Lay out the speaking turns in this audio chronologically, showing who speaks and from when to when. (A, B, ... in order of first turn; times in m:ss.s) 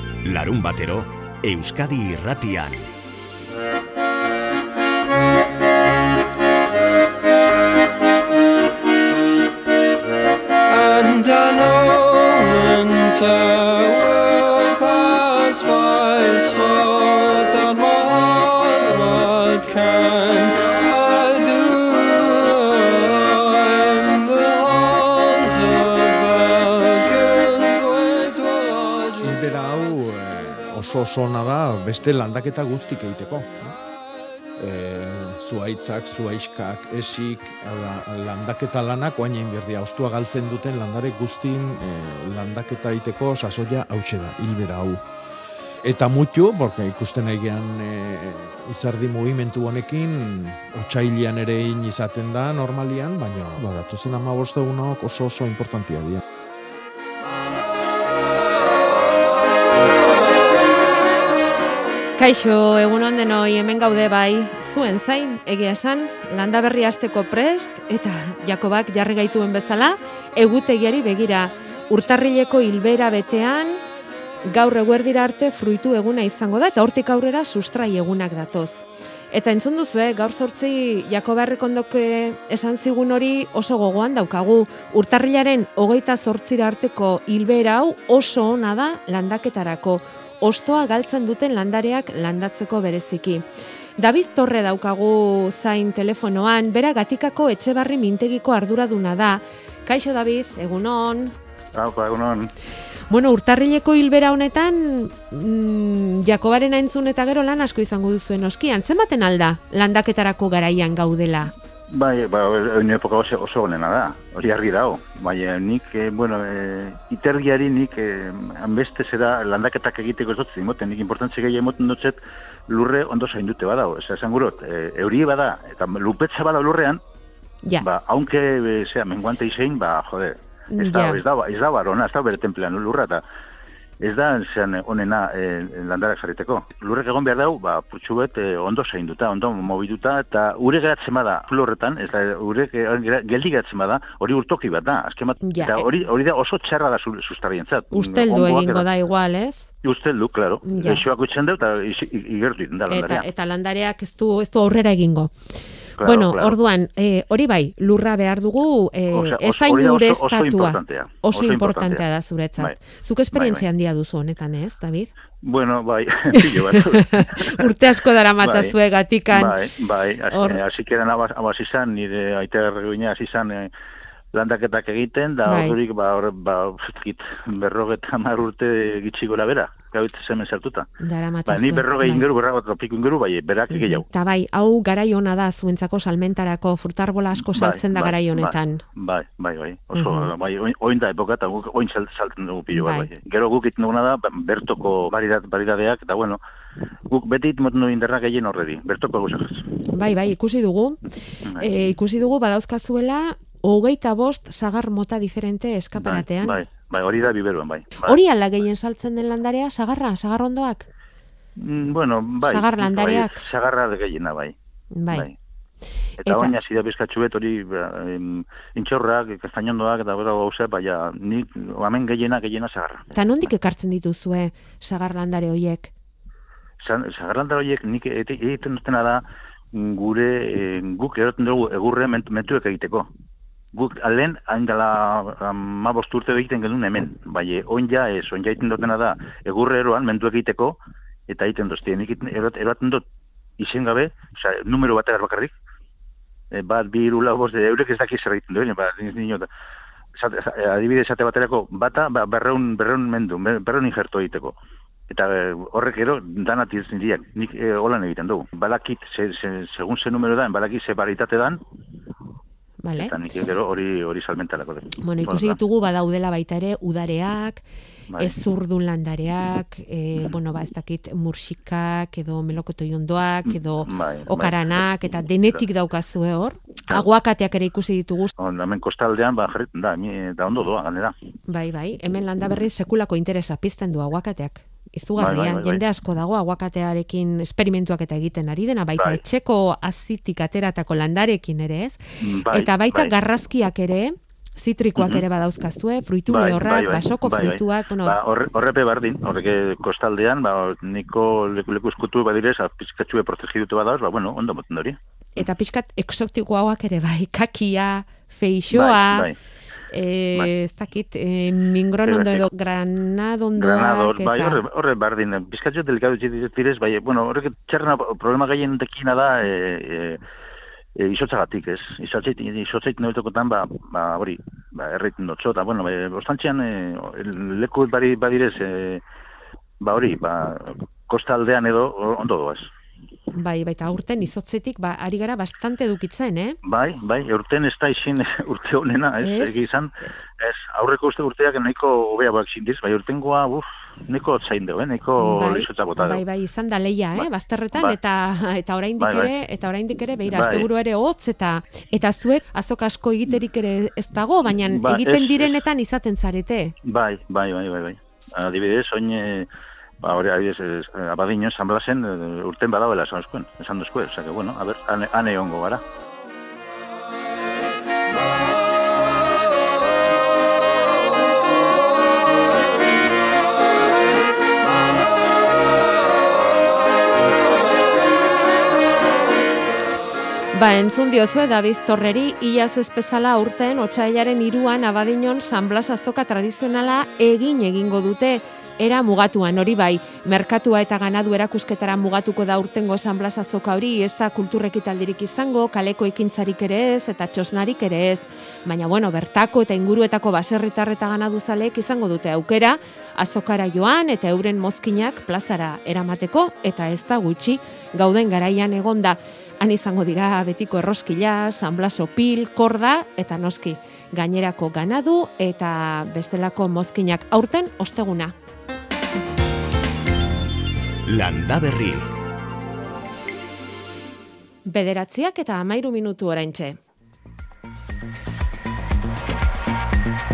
0:00.2-0:02.9 A
0:10.7-0:29.5 B
0:29.2-0:33.8 C
0:34.6-0:45.0 C
0:45.8-0:56.2 C
1:02.2-1:13.8 D
1:14.5-1:33.5 D
1:34.0-1:41.4 D
1:41.7-1:42.5 E
1:43.1-1:51.5 D
1:51.9-2:02.2 E
2:02.7-2:07.0 E
2:07.8-2:13.2 E
2:10.7-2:11.2 D
2:14.0-2:28.9 E
2:25.4-2:25.9 D
2:27.9-2:29.7 D
2:29.8-2:33.3 E
2:30.7-2:31.0 D
2:32.9-2:35.3 D
2:36.0-2:36.6 E
2:36.0-2:45.1 D
2:39.1-2:42.0 E
2:43.3-2:43.6 E
2:45.4-2:47.6 E
2:46.4-2:49.6 D
2:48.4-2:48.7 E
2:49.3-2:53.7 E
2:50.3-2:50.6 D
2:54.3-3:00.9 E
2:55.5-2:55.8 D
3:01.0-3:02.2 D
3:01.5-3:04.1 E
3:03.7-3:08.8 D
3:07.4-3:16.4 E
3:09.9-3:10.3 D
3:12.7-3:13.1 D
3:17.1-3:19.8 E
3:19.9-3:21.0 D
3:21.5-3:21.9 E
3:21.6-3:26.6 D
3:26.0-3:28.2 E
3:28.0-3:30.9 D
3:31.6-3:34.6 E
3:32.4-3:33.4 D
3:35.0-3:35.3 D
3:36.2-3:43.1 E
3:36.2-3:36.5 D
3:43.1-3:45.9 D
3:46.8-3:53.1 E
3:53.7-4:03.0 E
4:03.6-4:05.5 E
4:06.5-4:09.5 E
4:10.2-4:14.6 E
4:15.1-4:21.6 E
4:22.8-4:23.1 D
4:23.0-4:25.6 E
4:25.0-4:27.6 D
4:28.2-4:38.3 D
4:33.5-4:35.6 E
4:38.4-4:41.2 E
4:41.5-4:52.0 D
4:45.2-4:45.8 E
4:52.2-4:53.1 E
4:52.5-4:58.2 D
4:55.0-4:55.2 E
4:56.3-5:05.4 E
5:05.4-5:09.3 D
5:08.7-5:09.4 E
5:09.9-5:14.6 D
5:12.1-5:12.5 E
5:13.6-5:20.2 E
5:21.0-5:29.0 E
5:29.8-5:32.7 E
5:33.3-5:36.6 D
5:36.6-5:46.2 E
5:39.2-5:39.6 D
5:45.2-5:56.7 D
5:47.2-5:48.0 E
5:49.0-5:49.3 E
5:50.3-5:50.7 E
5:54.6-5:55.6 E
5:56.8-5:59.5 E
6:00.0-6:05.8 E
6:20.5-6:58.3 D
7:01.1-7:02.1 A
7:04.7-7:06.8 D